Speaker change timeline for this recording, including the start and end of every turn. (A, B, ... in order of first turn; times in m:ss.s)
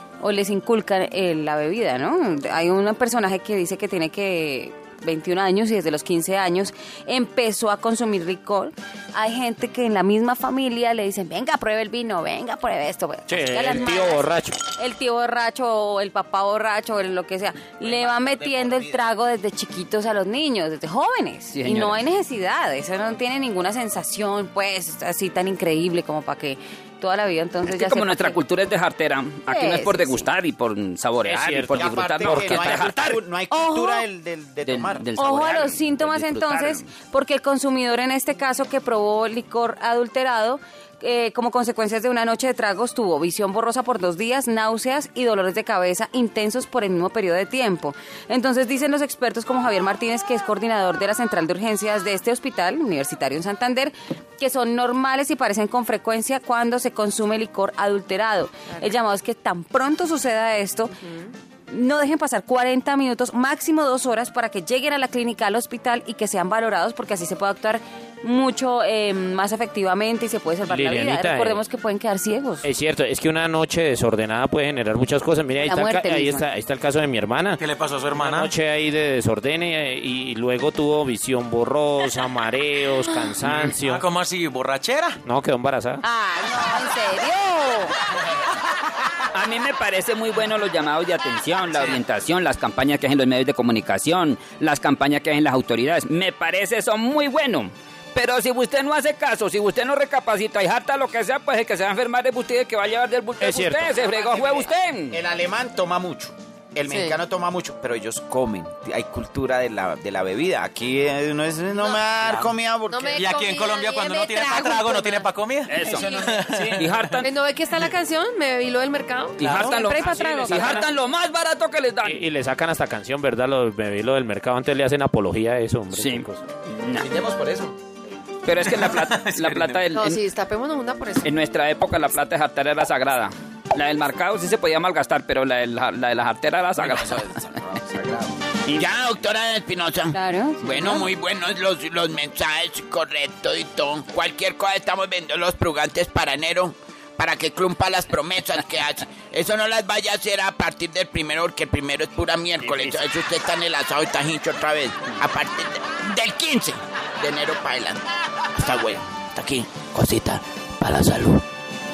0:00.2-0:28.4 A
0:13.3-0:14.6 B
0:17.8-0:19.0 C
0:21.5-0:22.0 D
0:27.7-0:33.2 D
0:29.5-0:30.3 A
0:31.2-0:32.9 B
0:31.8-0:35.1 C
0:33.5-0:34.1 A
0:34.6-0:36.9 D
0:35.2-1:01.0 A
1:01.0-1:01.3 E
1:01.7-1:12.7 A
1:10.7-1:11.6 B
1:12.6-1:17.6 B
1:15.6-1:16.4 E
1:17.6-1:18.5 F
1:18.1-1:24.1 B
1:23.4-1:25.2 F
1:25.2-1:26.0 B
1:26.0-1:28.0 A
1:29.3-1:45.2 D
1:43.4-1:44.1 B
1:44.4-1:53.2 C
1:46.9-1:47.2 E
1:51.7-1:52.2 E
1:52.2-1:52.5 F
1:52.8-1:55.3 E
1:53.1-1:57.2 F
1:55.7-1:57.3 D
1:56.0-1:56.5 E
1:57.2-2:00.9 E
1:59.4-2:02.2 D
1:59.4-1:59.8 F
1:59.9-2:00.8 A
2:02.0-2:06.4 B
2:05.9-2:07.1 D
2:07.0-2:07.7 C
2:08.4-2:10.2 D
2:08.7-2:09.8 F
2:09.9-2:11.3 E
2:11.2-2:17.5 D
2:16.8-2:18.3 C
2:18.7-2:41.4 G
2:20.1-2:21.1 A
2:32.6-2:33.0 D